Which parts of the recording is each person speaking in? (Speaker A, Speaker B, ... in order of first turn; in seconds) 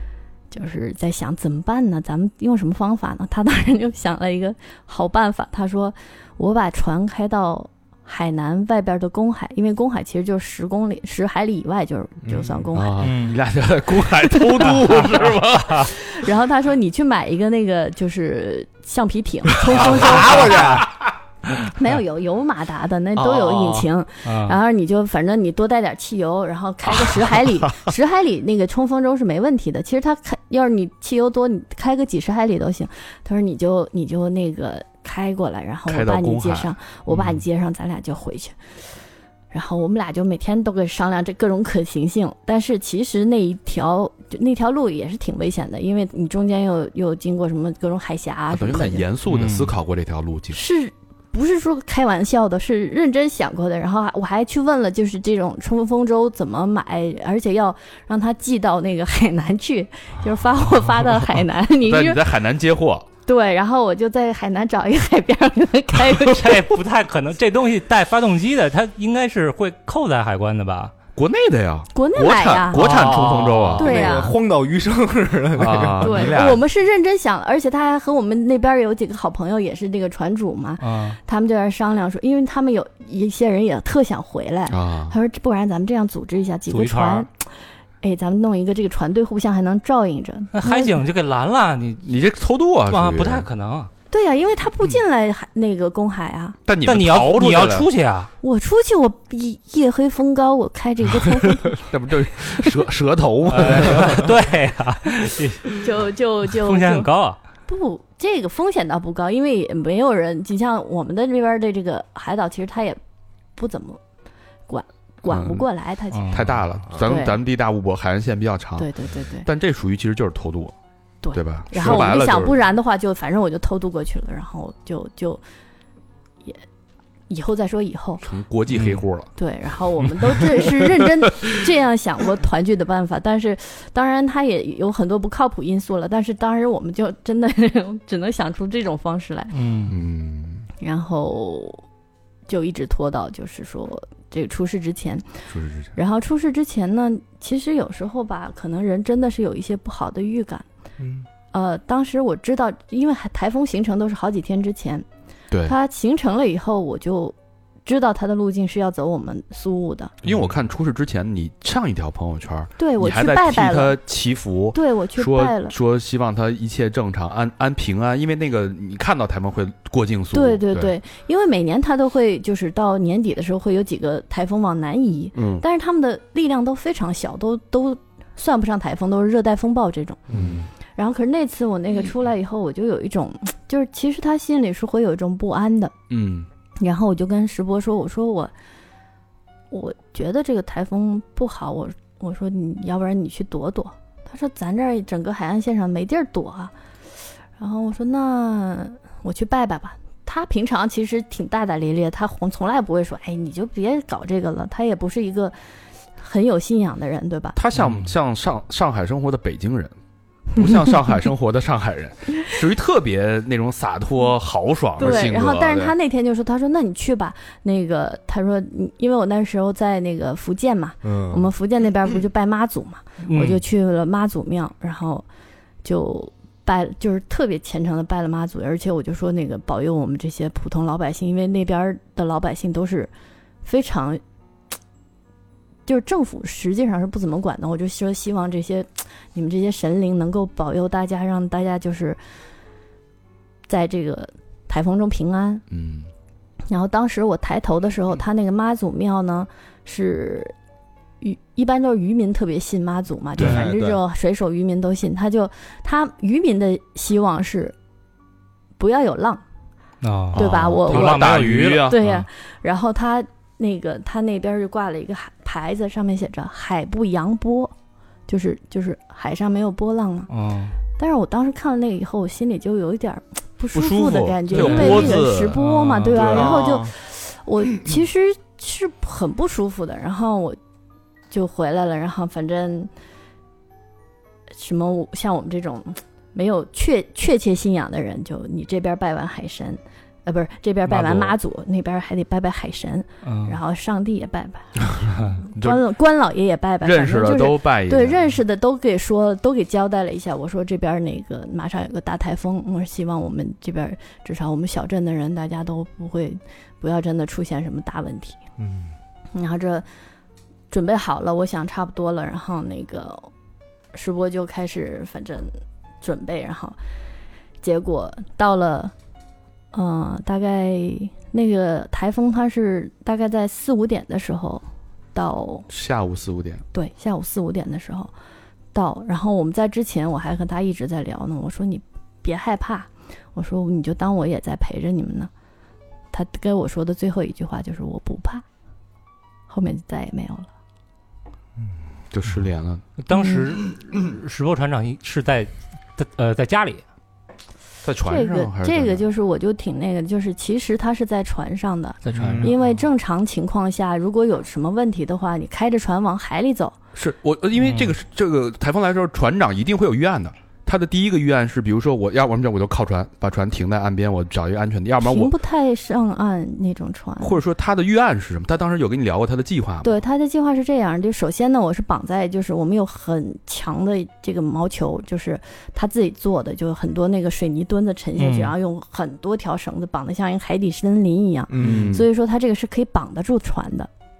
Speaker A: 0.5-13.0, 14.3-14.7, 16.0-20.7, 21.7-38.5, 39.5-49.1, 50.5-62.2, 63.2-66.7, 71.9-72.8, 73.8-74.3, 76.0-87.5, 88.0-91.0, 94.1-96.6, 98.4-101.8, 105.7-107.1, 107.7-113.0, 113.6-114.0, 114.7-117.4, 118.8-119.5, 121.2-125.4, 127.3-128.2, 129.4-139.6, 140.8-141.8, 142.5-150.7, 151.5-155.1, 155.6-160.1, 162.8-164.0, 164.7-165.7, 170.3-180.2, 180.9-185.9, 186.8-188.5, 189.7-196.7, 197.6-205.6, 206.2-207.6, 210.6-211.1, 215.0-225.2, 225.8-233.1, 233.6-234.2, 235.9-242.2, 243.7-245.6, 246.7-250.5, 251.2-257.7, 258.8-259.4, 260.3-267.7, 268.3-270.3, 271.0-280.6, 281.3-282.9, 284.5-308.4, 309.3-309.9, 310.7-313.3, 313.9-316.8, 317.6-318.9, 319.7-325.7, 326.7-328.1, 328.7-335.3, 336.1-338.4, 339.5-340.5, 343.1-343.5, 348.1-356.7, 365.0-367.4, 369.8-383.9
Speaker B: 12.2-12.7, 19.7-20.9, 23.1-23.9, 73.7-76.4, 151.0-151.3, 180.3-180.7, 215.0-215.9, 221.0-221.5, 253.4-254.0, 276.1-276.9, 308.6-308.9, 352.2-352.5, 381.5-382.0
Speaker C: 12.7-15.9, 20.4-20.9, 35.9-36.7, 48.5-50.6, 61.9-63.1, 71.2-74.3, 75.5-76.6, 84.7-85.2, 92.0-93.5, 96.7-97.9, 101.7-104.3, 115.2-115.7, 116.3-120.7, 121.3-122.5, 128.2-129.3, 139.9-140.7, 145.5-145.9, 160.2-170.9, 175.3-175.6, 180.3-180.7, 186.1-186.5, 207.6-209.9, 210.6-215.9, 245.7-246.1, 260.3-262.0, 273.7-276.6, 290.9-291.4, 295.5-295.8, 296.8-298.3, 325.7-326.6, 342.1-342.8, 347.8-349.1, 352.1-352.4, 356.9-365.3, 367.2-370.0, 381.6-382.1
Speaker D: 13.0-13.3, 24.2-24.6, 49.3-49.7, 66.1-70.9, 72.8-73.8, 80.8-81.2, 86.7-87.3, 90.5-92.0, 92.9-93.9, 96.8-98.3, 103.5-105.9, 106.5-107.4, 116.1-116.5, 139.5-139.9, 207.7-208.1, 223.2-223.6, 260.0-262.3, 270.3-270.8, 274.5-276.4, 293.2-293.6, 343.0-346.8, 352.0-352.6, 357.6-357.9, 378.2-378.5